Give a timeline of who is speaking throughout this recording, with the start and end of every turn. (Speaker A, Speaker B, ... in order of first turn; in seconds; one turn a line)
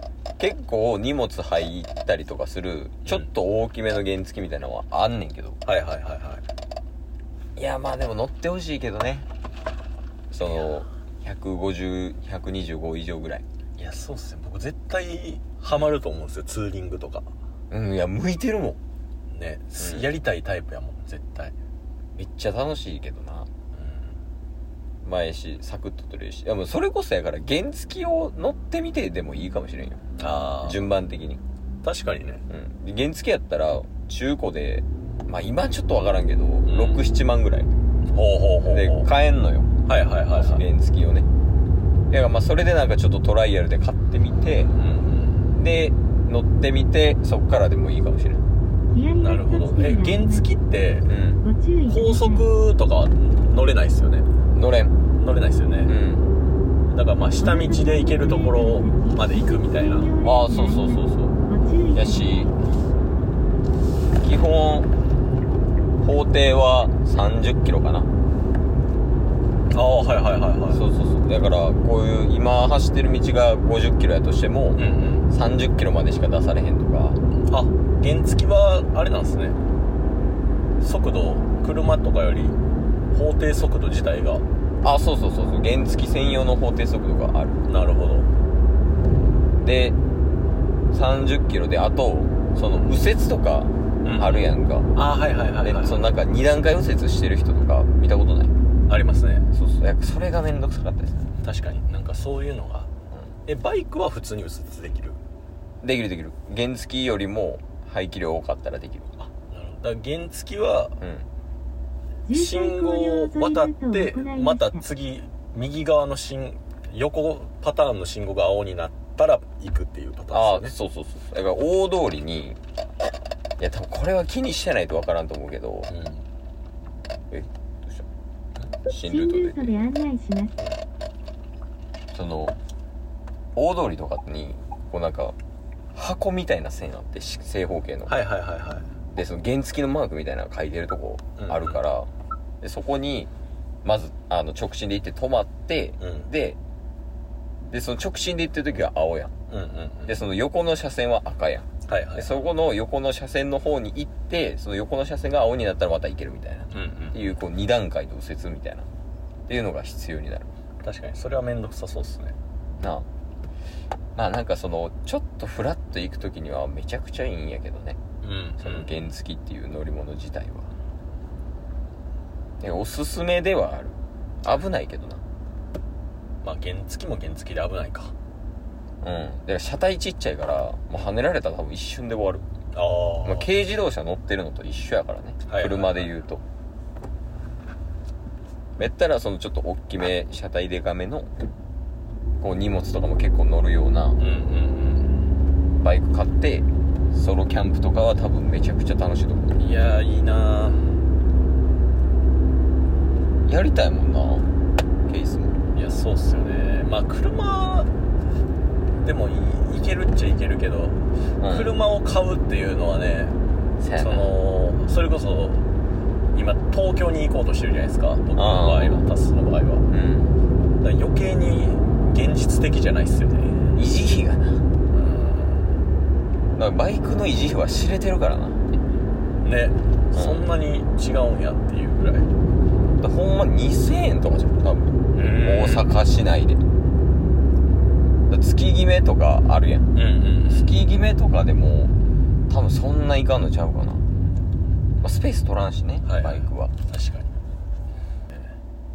Speaker A: 0.4-5.6
Speaker B: 3.0-3.3
Speaker B: 5.6-6.4
Speaker A: 7.5-9.3
Speaker A: 10.3-13.4
Speaker B: 10.4-10.7
Speaker B: 13.8-17.3
Speaker A: 17.7-18.8
Speaker B: 19.3-21.5
Speaker A: 19.8-20.1
Speaker A: 22.1-23.5
Speaker B: 23.8-24.1
Speaker A: 25.0-30.0
Speaker B: 30.2-30.9
Speaker A: 30.6-31.4
Speaker B: 31.8-32.4
Speaker A: 32.5-37.7
Speaker B: 36.6-37.1
Speaker B: 38.1-39.1
Speaker A: 38.6-39.7
Speaker B: 39.8-40.6
Speaker A: 40.3-41.3
Speaker A: 42.1-44.7
Speaker B: 44.7-45.5
Speaker A: 45.5-48.4
Speaker C: 48.9-50.3
Speaker B: 49.2-51.1
Speaker A: 51.1-51.4
Speaker C: 51.4-52.4
Speaker B: 51.9-54.3
Speaker A: 54.5-54.9
Speaker B: 55.1-55.9
Speaker A: 55.9-56.3
Speaker B: 56.9-60.1
Speaker C: 57.7-59.0
Speaker C: 59.9-61.0
Speaker A: 60.2-61.4
Speaker C: 61.5-62.4
Speaker A: 61.9-62.5
Speaker A: 64.2-64.9
Speaker A: 66.0-68.1
Speaker B: 69.7-70.8
Speaker A: 70.7-77.2
Speaker B: 74.8-75.3
Speaker B: 77.5-79.5
Speaker B: 80.8-82.6
Speaker B: 83.1-84.4
Speaker A: 84.8-87.6
Speaker B: 87.7-88.3
Speaker A: 89.6-90.0
Speaker A: 90.9-94.9
Speaker B: 94.0-96.1
Speaker A: 95.6-98.5
Speaker B: 98.9-99.5
Speaker A: 99.5-101.3
Speaker B: 101.4-102.9
Speaker B: 103.5-105.2
Speaker A: 105.8-109.1
Speaker B: 109.2-111.0
Speaker A: 111.0-111.3
Speaker C: 112.3-114.6
Speaker B: 112.3-120.7
Speaker A: 120.3-122.6
Speaker A: 123.6-125.9
Speaker B: 125.9-126.2
Speaker A: 127.3-128.1
Speaker A: 128.9-129.9
Speaker C: 129.0-130.6
Speaker A: 132.1-132.6
Speaker A: 133.6-135.4
Speaker A: 135.9-138.2
Speaker B: 138.1-138.9
Speaker A: 139.1-142.1
Speaker B: 141.4-141.8
Speaker A: 142.6-143.3
Speaker A: 143.8-146.6
Speaker B: 146.0-146.3
Speaker A: 147.7-149.3
Speaker B: 149.5-150.2
Speaker A: 150.1-158.9
Speaker B: 151.9-152.5
Speaker B: 156.7-157.2
Speaker A: 159.5-160.5
Speaker B: 160.8-162.3
Speaker A: 162.8-163.1
Speaker A: 164.2-168.0
Speaker B: 168.2-168.9
Speaker A: 168.6-170.7
Speaker A: 172.6-175.2
Speaker B: 176.4-178.1
Speaker A: 179.0-182.4
Speaker B: 182.7-183.5
Speaker A: 183.2-186.4
Speaker B: 185.4-186.2
Speaker A: 188.8-191.3
Speaker A: 192.4-194.2
Speaker B: 194.2-195.2
Speaker A: 195.8-199.7
Speaker B: 199.6-200.9
Speaker A: 203.5-204.5
Speaker A: 205.1-205.6
Speaker B: 205.7-207.9
Speaker B: 209.0-213.4
Speaker A: 211.4-211.7
Speaker A: 213.8-214.3
Speaker B: 214.0-215.7
Speaker B: 216.3-219.8
Speaker A: 218.3-219.0
Speaker A: 219.9-220.3
Speaker B: 220.8-223.7
Speaker A: 223.7-224.7
Speaker B: 224.9-225.7
Speaker A: 226.5-228.6
Speaker B: 229.4-232.3
Speaker A: 230.1-230.4
Speaker A: 233.0-236.6
Speaker B: 235.1-235.9
Speaker A: 238.3-239.9
Speaker B: 239.9-240.7
Speaker A: 240.5-241.9
Speaker A: 242.5-244.0
Speaker A: 245.0-246.7
Speaker B: 246.1-247.3